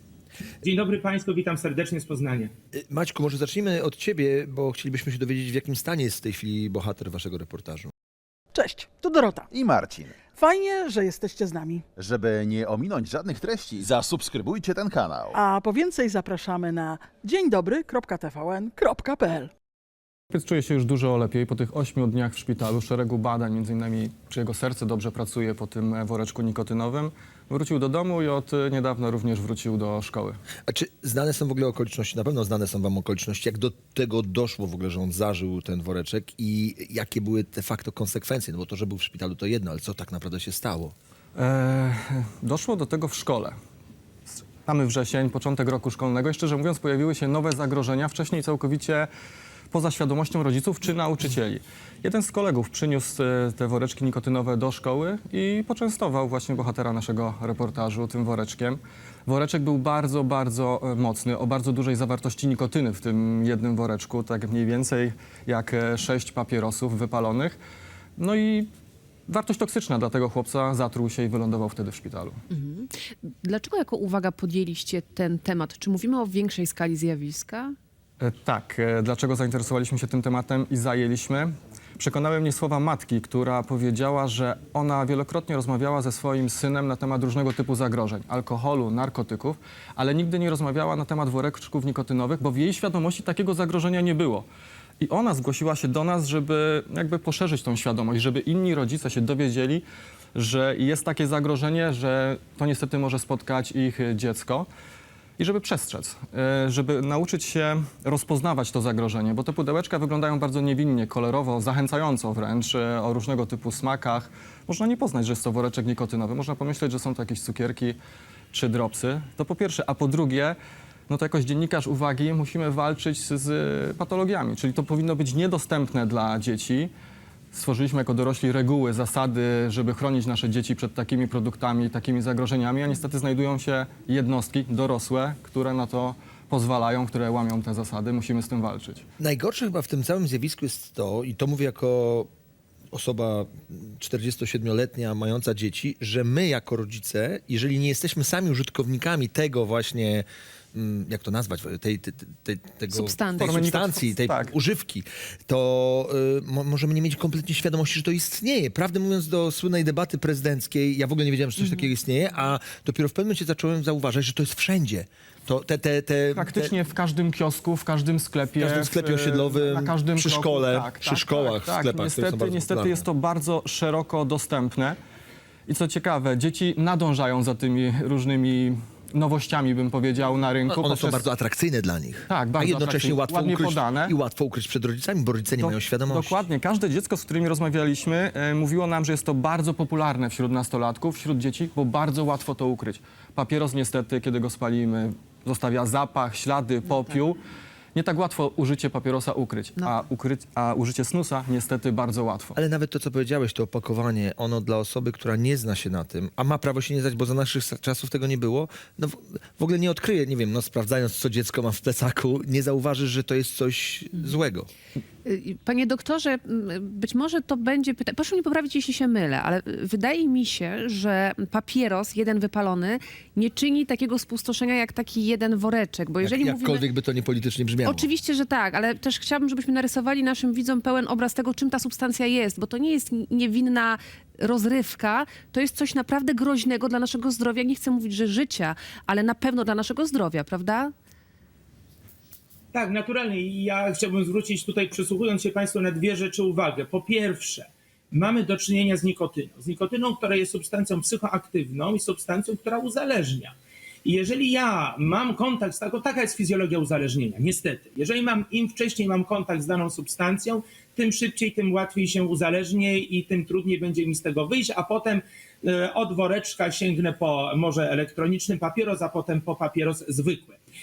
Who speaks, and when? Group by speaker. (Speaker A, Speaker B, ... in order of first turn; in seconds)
Speaker A: 0.6-2.5, 242.7-270.6
Speaker B: 2.7-7.9, 30.7-40.9, 139.2-142.3, 142.9-166.7, 168.6-173.1, 180.7-186.4, 202.6-214.7, 226.2-228.1
Speaker C: 8.5-9.5, 10.3-11.8, 15.3-19.5
Speaker D: 9.5-10.2, 12.0-15.4
Speaker E: 20.3-30.4, 41.4-43.5, 44.3-49.1, 49.7-67.6, 68.2-68.7, 69.3-72.4, 78.2-94.5, 95.0-104.7, 105.4-118.0, 118.5-120.6, 121.1-126.9, 127.5-139.1, 153.4-154.5, 166.3-175.0, 175.7-181.2, 182.3-184.2, 185.6-197.4, 197.9-202.6
Speaker F: 72.5-77.8, 152.9-153.7, 161.6-161.9, 215.2-226.8, 227.8-240.9